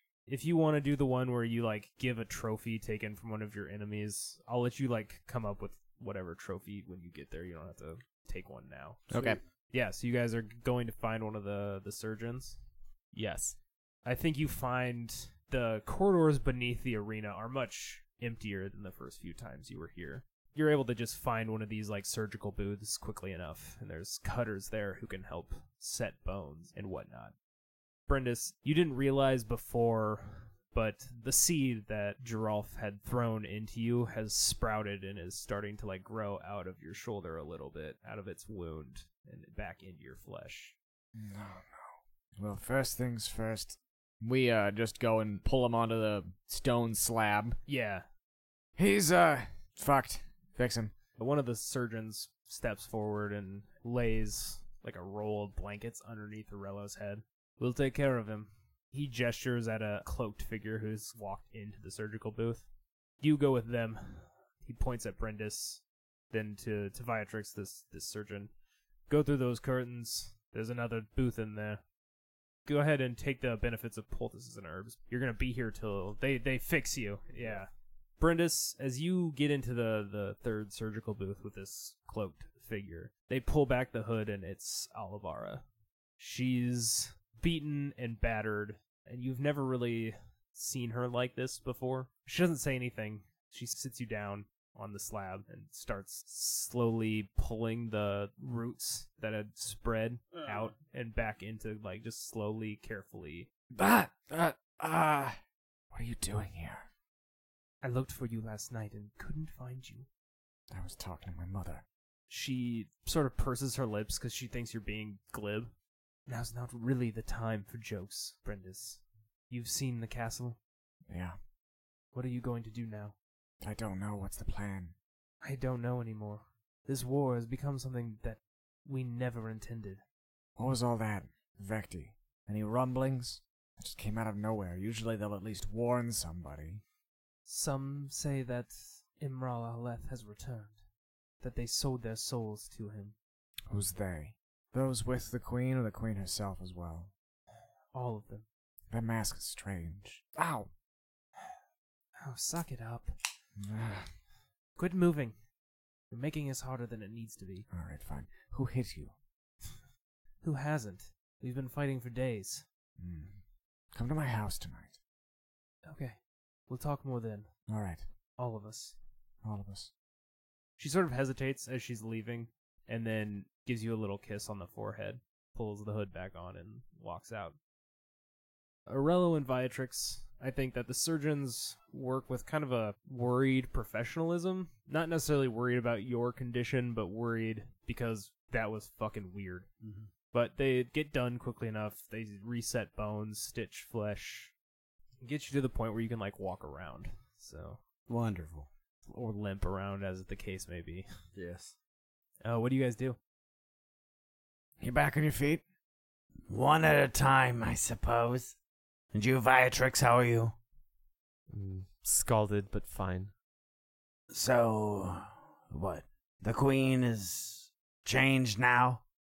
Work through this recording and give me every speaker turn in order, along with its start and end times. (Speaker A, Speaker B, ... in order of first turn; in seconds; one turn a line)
Speaker A: 0.3-9.1
Speaker B: 9.1-9.4
Speaker C: 9.1-9.4
Speaker A: 9.7-12.6
Speaker D: 13.1-13.6
Speaker A: 14.0-27.3
Speaker A: 28.1-40.8
Speaker B: 41.1-47.6
Speaker A: 47.6-48.0
Speaker B: 48.8-50.9
Speaker A: 51.2-62.6
Speaker A: 63.2-68.5
Speaker A: 69.1-71.8
Speaker A: 72.7-85.6
Speaker A: 86.2-103.5
Speaker B: 103.7-105.4
Speaker B: 105.9-106.8
Speaker A: 107.8-110.1
Speaker B: 110.7-111.8
Speaker A: 112.3-115.7
Speaker A: 116.3-120.6
Speaker B: 121.1-121.3
Speaker A: 122.1-123.1
Speaker B: 123.6-124.9
Speaker A: 125.4-130.0
Speaker B: 130.6-136.8
Speaker A: 137.4-140.8
Speaker A: 141.4-143.2
Speaker B: 143.7-147.1
Speaker A: 147.9-148.4
Speaker B: 148.9-150.7
Speaker A: 152.2-153.1
Speaker B: 153.6-154.1
Speaker A: 154.8-155.3
Speaker A: 156.1-157.7
Speaker B: 157.7-159.1
Speaker A: 160.4-162.6
Speaker B: 163.0-163.4
Speaker B: 163.9-165.0
Speaker A: 165.8-167.5
Speaker B: 167.7-168.0
Speaker A: 168.4-168.9
Speaker B: 169.4-169.9
Speaker A: 170.8-177.6
Speaker A: 178.9-189.7
Speaker C: 189.8-190.1
Speaker A: 190.3-194.5
Speaker A: 195.2-197.8
Speaker C: 198.1-198.7
Speaker A: 199.1-201.1
Speaker C: 201.3-201.7
Speaker A: 202.4-203.2
Speaker B: 204.8-205.6
Speaker C: 206.5-208.5
Speaker C: 209.1-210.5
Speaker D: 211.5-213.3
Speaker C: 214.3-219.0